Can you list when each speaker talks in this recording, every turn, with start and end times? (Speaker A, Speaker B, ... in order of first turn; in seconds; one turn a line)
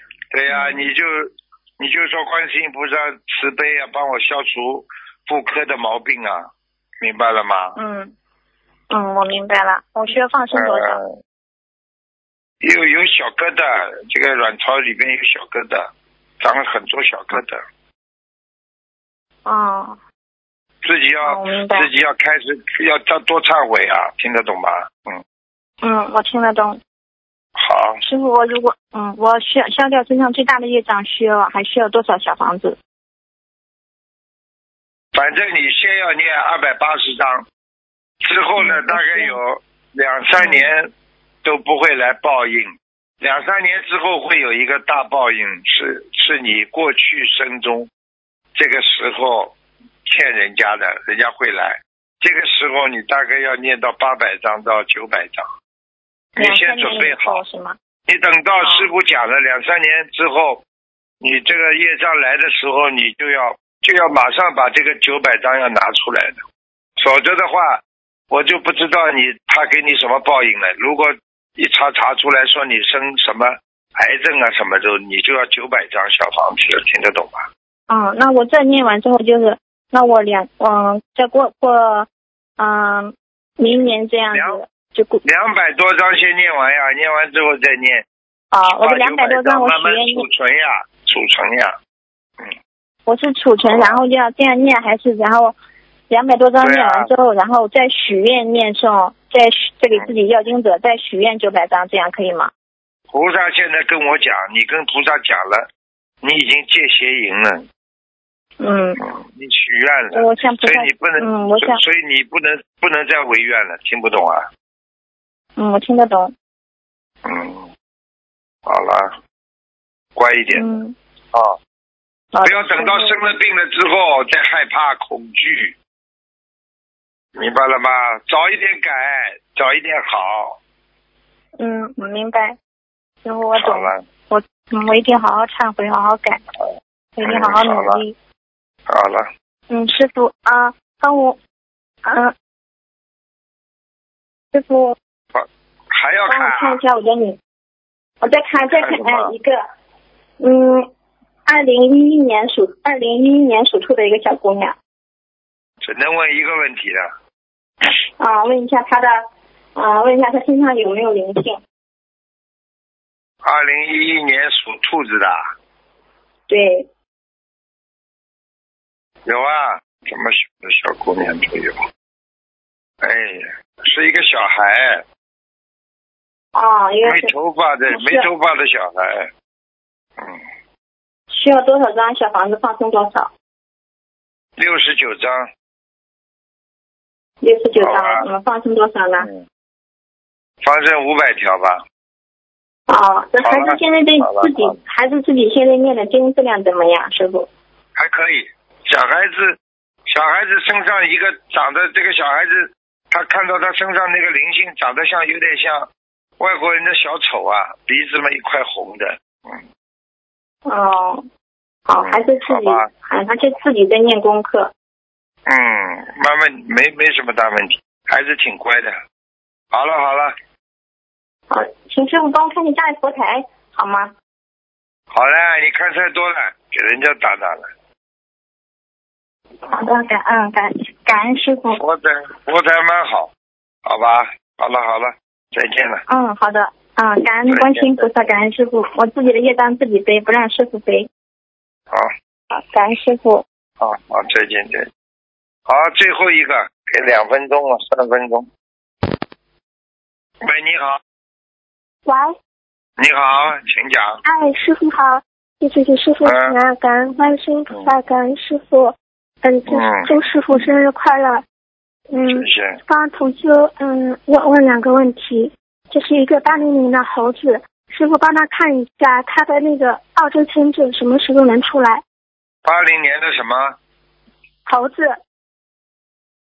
Speaker A: 0.3-6.5
Speaker B: 0.5-0.9
Speaker A: 7.0-7.8
Speaker B: 7.8-8.1
Speaker B: 8.9-11.0
Speaker A: 10.5-11.1
Speaker A: 12.6-17.6
Speaker B: 19.4-20.0
Speaker A: 20.8-25.2
Speaker B: 21.2-21.9
Speaker B: 25.8-26.8
Speaker A: 27.6-28.0
Speaker B: 28.0-32.8
Speaker A: 35.1-37.5
Speaker A: 38.2-40.9
Speaker B: 38.6-39.4
Speaker B: 40.4-40.7
Speaker A: 41.4-47.9
Speaker A: 48.5-49.5
Speaker A: 50.0-55.5
Speaker A: 56.4-57.4
Speaker B: 56.4-57.8
Speaker A: 58.1-60.6
Speaker B: 58.6-58.9
Speaker A: 61.2-66.4
Speaker A: 67.0-77.5
Speaker B: 77.9-82.1
Speaker B: 82.6-85.2
Speaker A: 83.7-84.6
Speaker A: 85.2-88.0
Speaker B: 88.5-90.2
Speaker A: 88.7-91.7
Speaker B: 93.0-95.5
Speaker A: 93.6-94.0
Speaker B: 96.1-102.5
Speaker A: 96.6-97.1
Speaker A: 103.1-105.7
Speaker A: 106.2-107.7
Speaker B: 108.6-109.0
Speaker A: 109.0-114.5
Speaker B: 110.1-111.8
Speaker B: 115.6-116.3
Speaker A: 117.2-117.7
Speaker A: 118.7-119.1
Speaker A: 120.2-120.7
Speaker B: 120.5-120.9
Speaker B: 122.3-123.2
Speaker A: 122.4-125.7
Speaker A: 127.3-130.6
Speaker B: 131.6-132.6
Speaker B: 133.2-136.4
Speaker A: 133.5-134.0
Speaker B: 137.2-138.1
Speaker A: 137.2-138.0
Speaker A: 138.9-139.3
Speaker B: 139.7-141.4
Speaker B: 142.0-142.3
Speaker B: 144.5-144.9
Speaker A: 145.3-146.8
Speaker B: 146.3-147.4
Speaker B: 148.2-149.6
Speaker A: 148.7-149.3
Speaker B: 150.4-150.9
Speaker B: 151.4-154.7
Speaker A: 155.8-157.1
Speaker B: 158.2-159.2
Speaker B: 159.8-161.6
Speaker A: 163.4-165.4
Speaker B: 166.5-166.9
Speaker A: 169.2-171.8
Speaker A: 173.0-175.0
Speaker B: 176.5-177.3
Speaker A: 177.0-179.3
Speaker B: 177.9-178.3
Speaker B: 181.3-183.3
Speaker A: 184.6-185.5
Speaker B: 187.4-189.3
Speaker A: 187.8-188.2
Speaker A: 189.2-189.4
Speaker A: 190.6-191.8
Speaker B: 192.9-197.5
Speaker A: 193.4-194.8
Speaker A: 197.9-205.9
Speaker A: 206.4-209.6
Speaker B: 210.7-211.2
Speaker B: 211.9-214.7
Speaker A: 212.0-212.9
Speaker A: 215.5-219.0
Speaker A: 219.7-220.3
Speaker B: 221.5-224.1
Speaker A: 225.1-227.7
Speaker B: 229.7-231.8
Speaker A: 231.8-233.3
Speaker A: 233.8-236.0
Speaker B: 236.1-241.1
Speaker A: 237.5-238.0
Speaker B: 242.5-243.4
Speaker A: 243.8-244.9
Speaker A: 245.7-248.5
Speaker A: 250.4-251.0
Speaker C: 252.1-252.3
Speaker A: 253.0-254.2
Speaker C: 254.2-261.4
Speaker A: 256.2-256.6
Speaker A: 259.7-260.6
Speaker C: 262.1-272.0
Speaker A: 262.2-262.8
Speaker A: 272.6-273.8
Speaker C: 274.6-275.2